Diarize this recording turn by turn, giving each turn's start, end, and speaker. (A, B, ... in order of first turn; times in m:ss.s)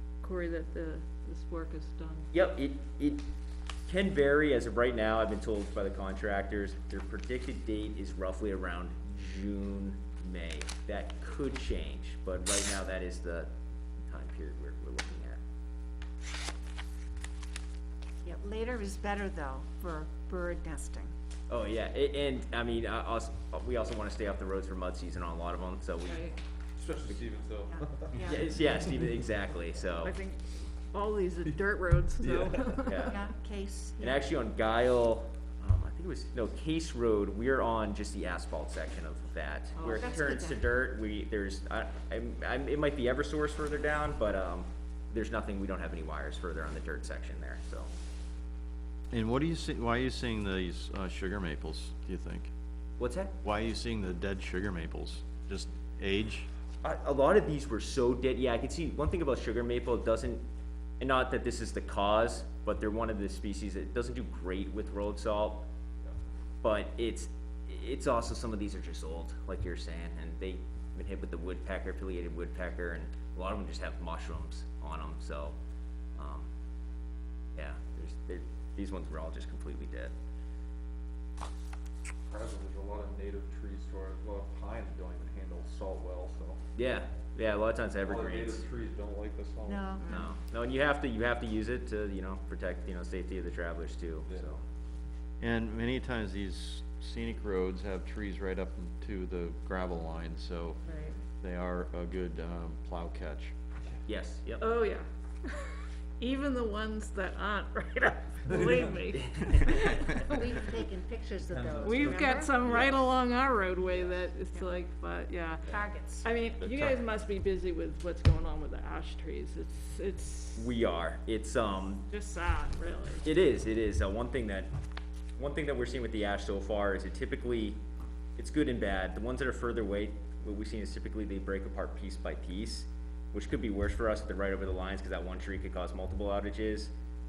0:00.2-0:02.3 A
0:02.3-0:03.2 B
0:03.9-0:13.5 B
0:14.1-0:15.4 B
0:18.2-0:21.1 C
0:21.5-0:26.2 B
0:26.0-0:26.4 A
0:26.8-0:28.5 D
0:27.7-0:28.4 C
0:28.2-0:30.1 B
0:30.0-0:33.2 A
0:32.2-0:32.7 D
0:32.8-0:33.2 B
0:33.1-0:34.2 C
0:34.0-0:47.9 B
0:39.7-0:40.0 A
0:39.8-0:40.6 C
0:49.1-0:52.5 E
0:53.0-0:53.3 B
0:53.4-0:56.5 E
0:56.8-1:00.4 B
1:01.0-1:05.6 B
1:06.6-1:15.6 B
1:16.2-1:16.5 B
1:17.5-1:20.1 B
1:22.3-1:26.6 D
1:26.8-1:28.6 B
1:28.0-1:30.0 D
1:29.6-1:30.1 C
1:30.0-1:30.3 A
1:30.0-1:34.6 B
1:34.3-1:34.6 D
1:35.4-1:40.8 E
1:40.8-1:41.2 A
1:41.4-1:43.5 E
1:44.0-1:44.7 B
1:44.6-1:50.3 A
1:49.1-1:49.8 B
1:50.2-1:52.6 C
1:51.4-1:53.1 D
1:51.8-2:00.7 A
1:55.7-1:56.4 C
2:00.6-2:02.0 B
2:02.1-2:03.2 A
2:03.2-2:04.7 B
2:05.4-2:07.8 B
2:08.4-2:16.9 B